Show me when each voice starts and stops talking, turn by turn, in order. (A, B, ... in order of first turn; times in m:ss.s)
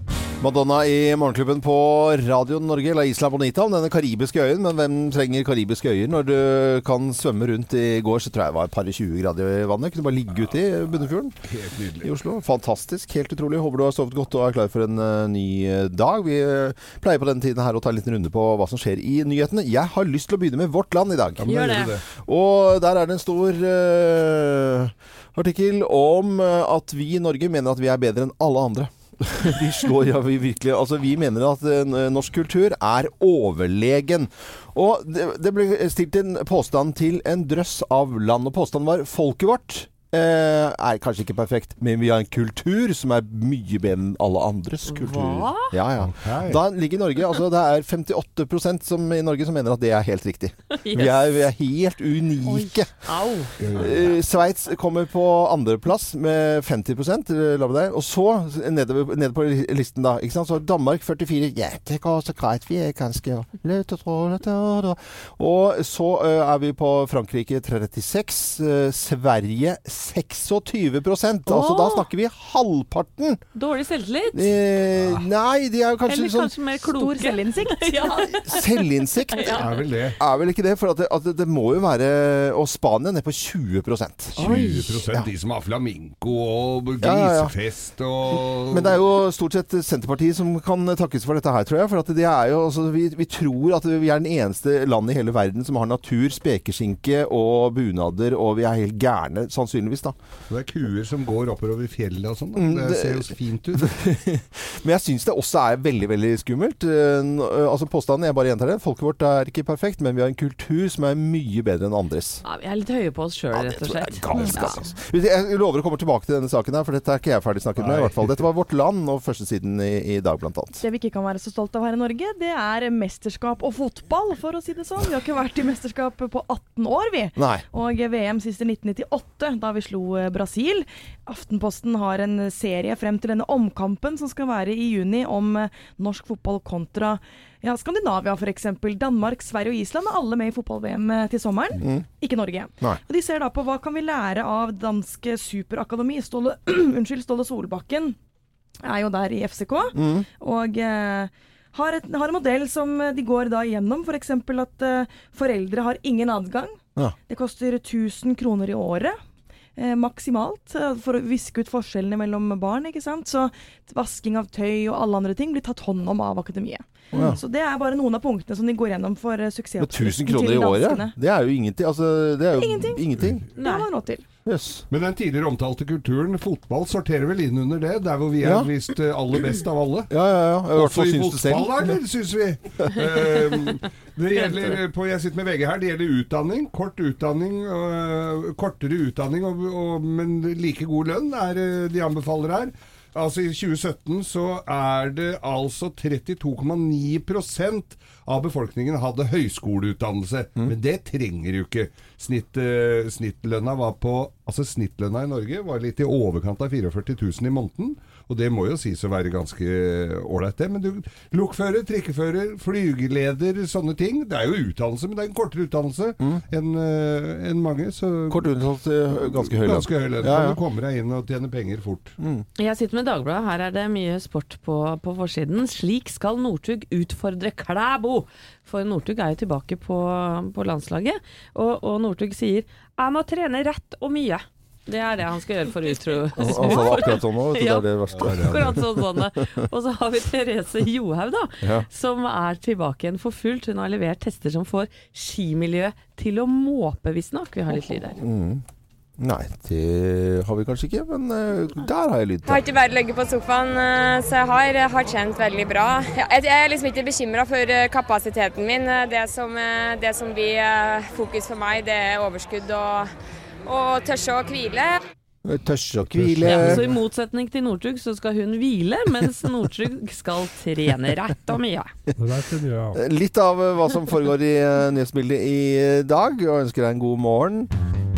0:00.4-0:11.4 A
0:11.4-0:12.1 B
0:12.0-0:52.9 A
0:21.4-0:22.0 B
0:21.5-0:21.9 C
0:44.9-0:45.7 C
0:46.0-0:46.6 B
0:50.7-0:51.4 C
0:52.4-0:53.5 C
0:53.6-0:54.0 B
0:53.7-1:13.4 A
1:11.5-1:12.1 C
1:13.5-1:14.5 C
1:14.3-1:16.5 A
1:15.0-1:15.2 B
1:16.1-1:18.7 C
1:16.9-1:18.4 D
1:18.3-1:19.6 A
1:19.3-1:19.6 C
1:19.5-1:20.2 B
1:20.2-1:24.6 A
1:24.4-1:24.9 C
1:24.4-1:29.0 B
1:27.0-1:27.5 A
1:28.7-1:40.1 A
1:40.5-1:43.9 B
1:42.6-1:52.4 A
1:52.4-1:54.9 C
1:53.5-2:00.8 A
1:57.8-1:58.4 B
2:00.8-2:28.2 D
2:07.4-2:07.6 A
2:21.8-2:22.0 A
2:28.8-2:39.2 D
2:29.9-2:30.2 A
2:39.8-2:51.1 D
2:47.1-2:47.4 A
2:49.8-2:53.4 A
2:52.5-2:53.0 D
2:53.6-2:53.9 C
2:53.6-2:54.2 D
2:54.4-2:54.8 A
2:54.9-3:00.1 B
2:58.4-2:58.7 A
3:00.1-3:02.0 A
3:00.7-3:38.4 B
3:38.3-3:40.6 A
3:39.3-3:42.2 B
3:42.2-3:42.4 A
3:42.6-4:08.2 C
3:56.4-3:59.2 A
3:58.2-3:58.8 B
4:08.2-4:08.6 A
4:09.2-4:12.6 A
4:12.4-4:23.1 E
4:23.6-4:25.0 E
4:25.4-4:26.8 A
4:26.1-4:26.9 B
4:26.4-4:31.9 C
4:32.2-4:33.0 B
4:32.9-4:37.7 A